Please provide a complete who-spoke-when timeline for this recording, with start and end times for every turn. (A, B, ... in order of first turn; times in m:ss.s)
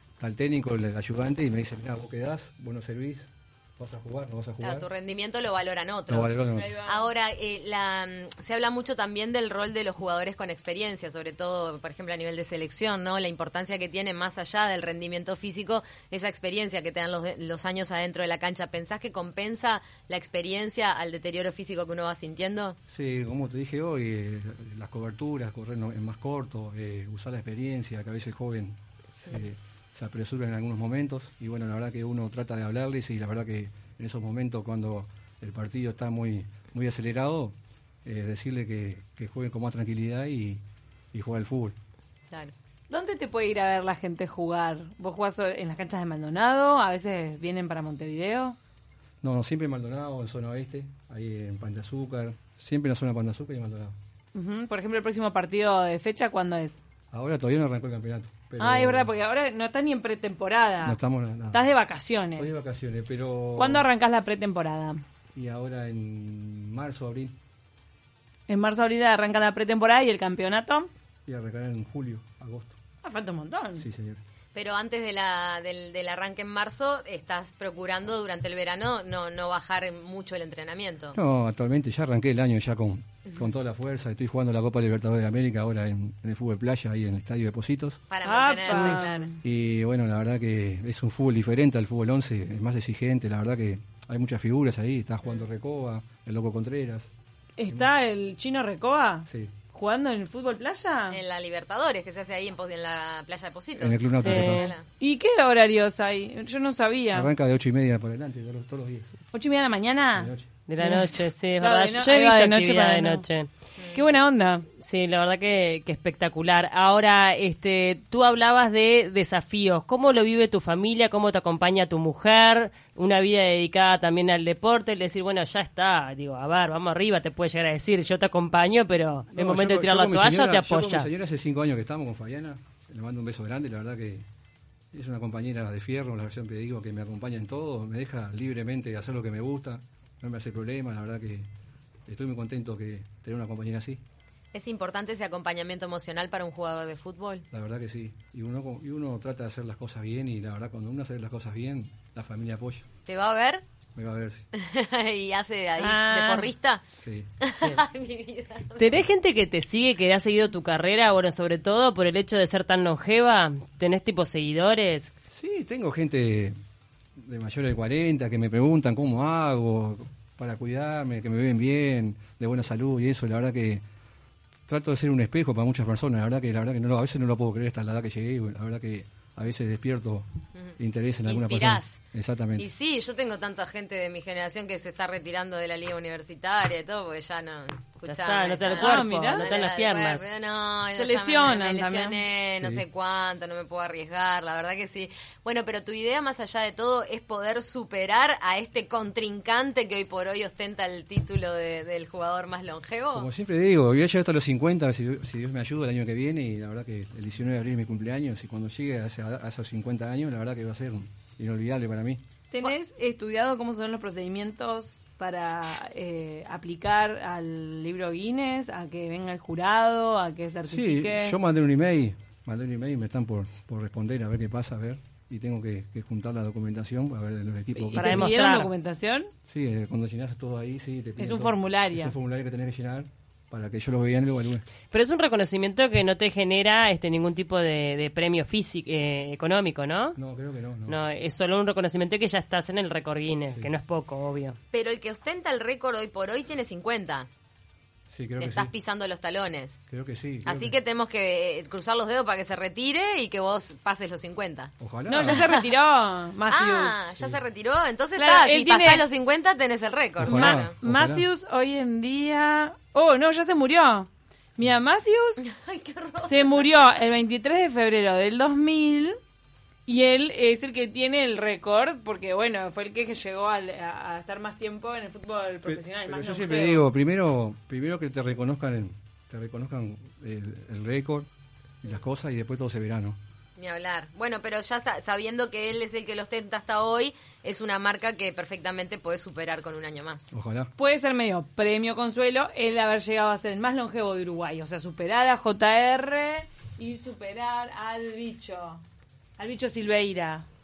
0:00.2-0:04.9 A
0:04.6-0:22.8 B
0:06.1-0:06.7 A
0:06.5-0:07.0 C
0:22.9-0:40.6 A
0:41.1-0:41.7 A
0:42.9-0:48.6 C
0:49.2-0:53.9 A
0:54.3-0:56.8 C
0:57.1-0:59.1 A
0:58.6-1:01.0 C
1:00.8-1:01.6 A
1:01.5-1:02.6 C
1:02.4-1:03.9 A
1:03.6-1:05.0 C
1:05.3-1:07.4 A
1:08.5-1:10.9 C
1:11.2-1:12.8 A
1:13.0-1:13.8 C
1:13.8-1:14.2 A
1:14.5-1:21.2 B
1:21.1-1:28.0 A
1:28.1-1:29.3 B
1:28.2-1:29.4 C
1:28.8-1:37.1 A
1:37.6-1:41.2 C
1:39.3-1:39.6 A
1:41.1-1:44.8 B
1:43.8-1:44.7 A
1:44.2-1:44.6 D
1:44.5-1:47.3 C
1:47.1-1:49.1 A
1:49.3-1:53.2 C
1:50.1-1:50.5 A
1:50.7-1:53.5 D
1:53.8-1:54.0 B
1:53.9-1:54.6 C
1:54.8-2:11.1 D
2:09.4-2:14.2 A
2:14.9-2:21.5 A
2:22.1-2:24.0 A
2:24.5-2:27.4 B
2:27.5-2:32.8 A
2:33.0-2:33.6 B
2:33.9-2:34.4 A
2:34.5-2:36.8 B
2:35.8-2:36.5 C
2:37.0-2:37.3 A
2:37.4-2:39.0 B
2:38.8-2:45.1 D
2:45.3-2:46.6 A
2:47.2-2:53.8 A
2:54.7-3:02.6 A
3:00.6-3:02.0 B
3:02.6-3:23.3 B
3:08.1-3:10.2 D
3:08.7-3:09.5 C
3:10.9-3:12.2 C
3:23.1-3:32.2 A
3:32.5-3:41.4 C
3:40.7-3:48.3 A
3:47.8-3:49.3 C
3:48.0-3:48.7 D
3:49.5-3:54.6 A
3:51.2-3:52.1 C
3:54.9-4:00.2 D
4:00.2-4:01.0 A
4:00.9-4:04.6 D
4:04.7-4:07.3 B
4:08.1-4:08.7 A
4:08.4-4:09.8 B
4:09.9-4:10.8 A
4:10.4-4:14.7 B
4:14.8-4:15.5 A
4:15.1-4:17.0 C
4:15.2-4:15.5 B
4:16.5-4:20.8 B
4:18.2-4:19.0 C
4:20.2-4:21.2 A
4:20.2-4:25.4 C
4:25.4-4:26.6 B
4:26.2-4:29.2 C
4:29.9-4:36.8 C
4:35.6-4:41.3 A
4:41.8-4:43.2 A
4:43.6-4:50.3 B
4:50.3-4:50.7 A
4:50.8-4:58.8 C
4:59.4-5:00.4 C